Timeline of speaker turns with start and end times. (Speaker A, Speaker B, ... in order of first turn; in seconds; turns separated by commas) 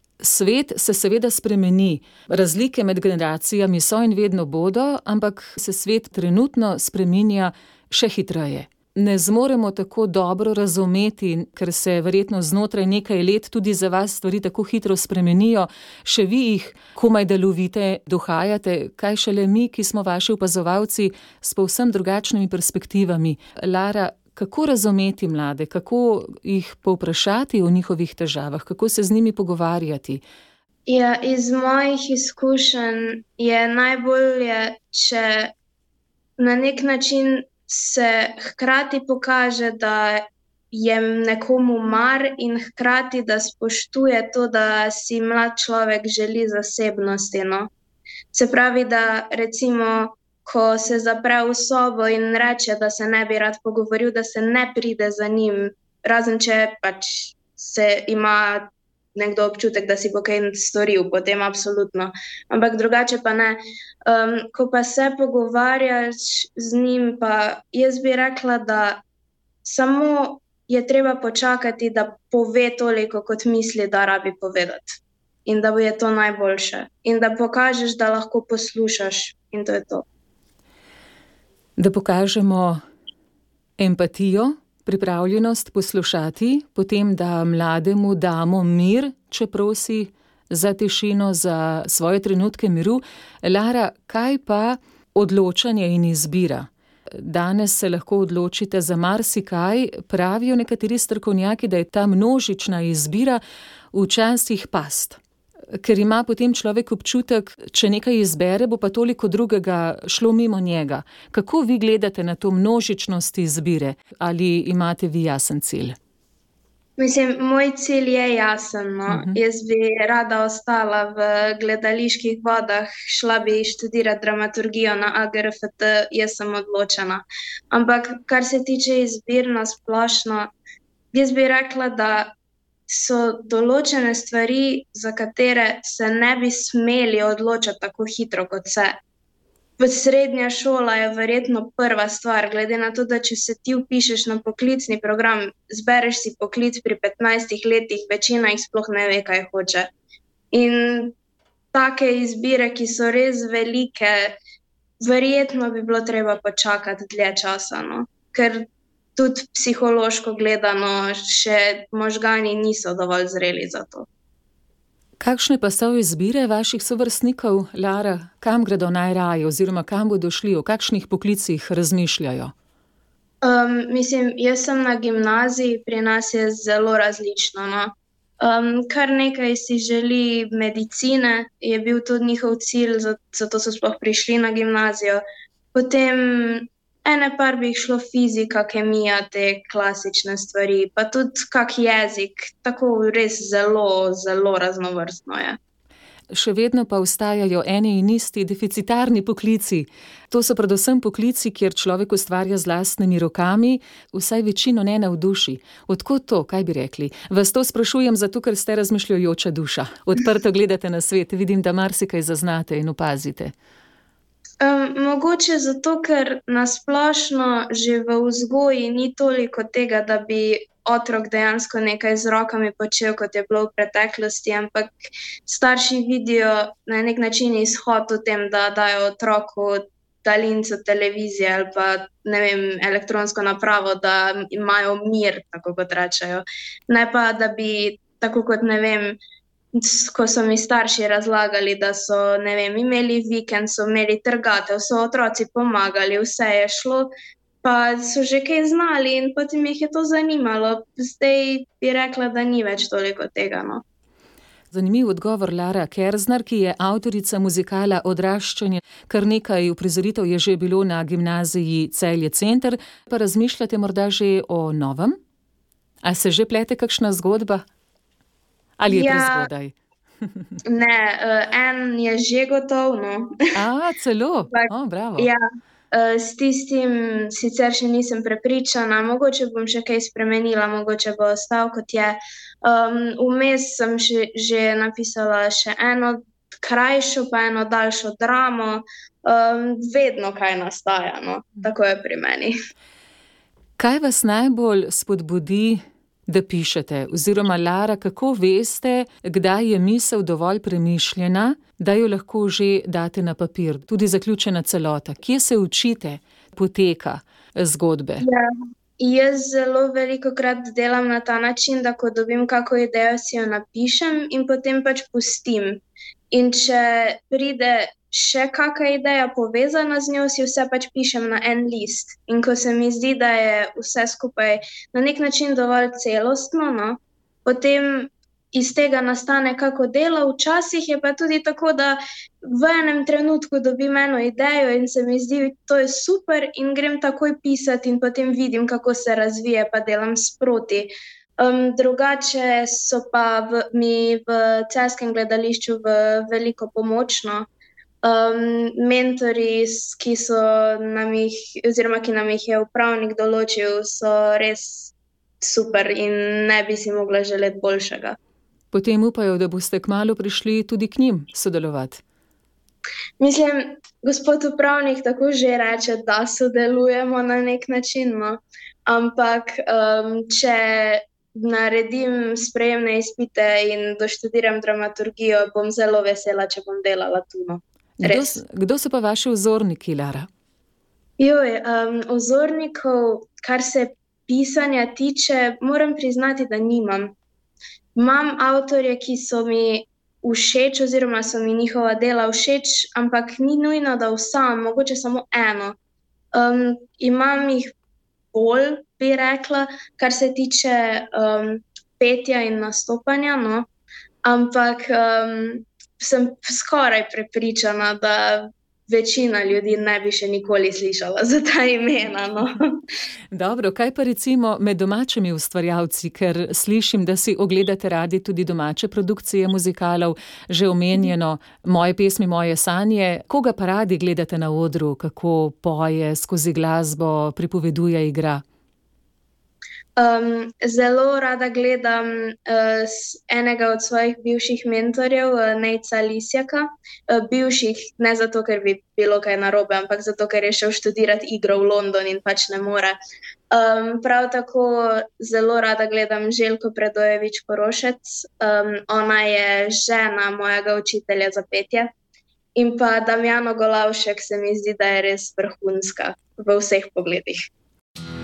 Speaker A: 0.2-30.2, Speaker B: 30.9-35.5, Speaker B: 36.4-47.7, Speaker B: 48.3-69.0, Speaker B: 69.6-80.0, Speaker A: 81.8-82.8, Speaker A: 83.8-103.4, Speaker A: 103.9-105.2, Speaker A: 105.8-116.0, Speaker B: 117.0-130.5, Speaker A: 119.1-119.4, Speaker B: 131.1-132.3, Speaker B: 132.9-139.0, Speaker B: 139.8-149.9, Speaker B: 150.5-151.1, Speaker B: 151.7-154.4, Speaker B: 155.0-164.1, Speaker A: 165.2-172.5, Speaker B: 173.4-185.2, Speaker B: 185.7-195.6, Speaker A: 196.3-213.5, Speaker B: 214.6-224.9, Speaker B: 225.4-239.2, Speaker B: 239.7-247.1, Speaker B: 247.6-253.8, Speaker A: 254.7-265.2, Speaker A: 266.0-267.6, Speaker A: 268.8-269.7, Speaker B: 268.9-269.5, Speaker B: 270.6-273.4, Speaker A: 273.5-275.3, Speaker B: 274.5-292.5, Speaker A: 293.8-308.2, Speaker B: 308.2-347.5, Speaker B: 348.0-358.1, Speaker A: 358.7-362.0, Speaker B: 363.2-378.4, Speaker A: 378.0-380.3, Speaker B: 381.2-387.1, Speaker B: 387.9-395.8, Speaker B: 396.3-397.7, Speaker B: 398.3-403.6, Speaker B: 404.2-412.8, Speaker A: 413.3-428.4, Speaker B: 430.0-443.0, Speaker B: 443.5-451.9, Speaker B: 452.5-457.4